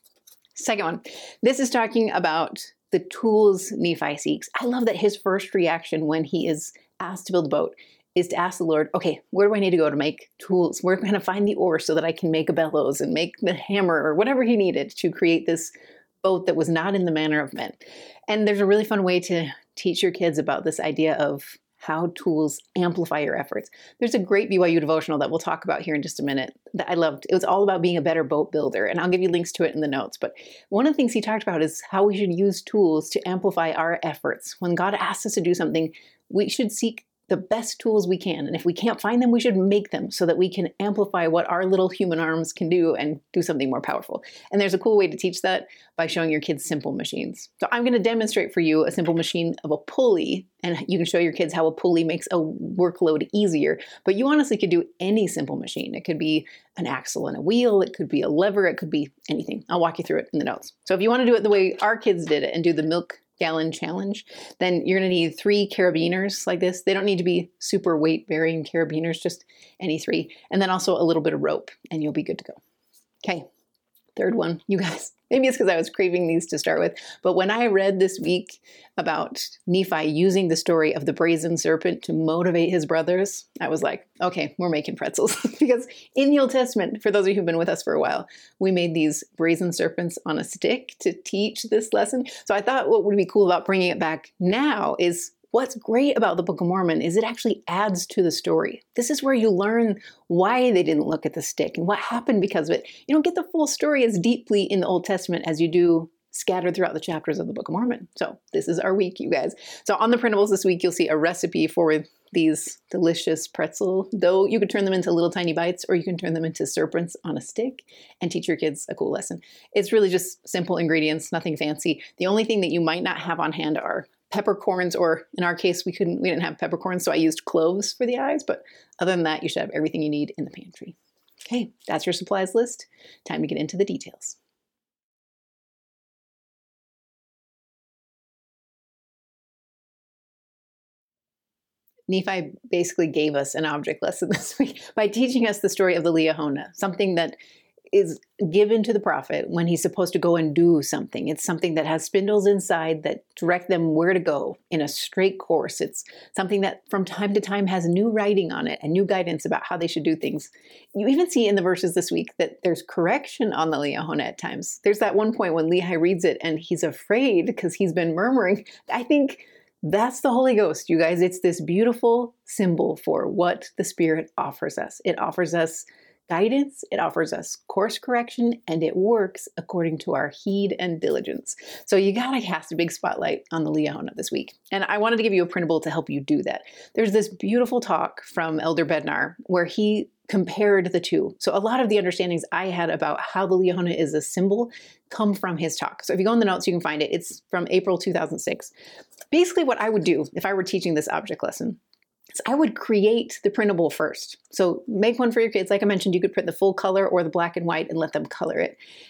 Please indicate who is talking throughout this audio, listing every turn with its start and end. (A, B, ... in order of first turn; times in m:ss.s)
0:00.6-0:15.7 A
0:16.2-1:12.6 A
1:14.2-2:14.4 A
2:22.1-2:27.4 A
2:27.9-3:18.7 A
3:19.3-3:21.8 A
3:22.3-3:28.8 A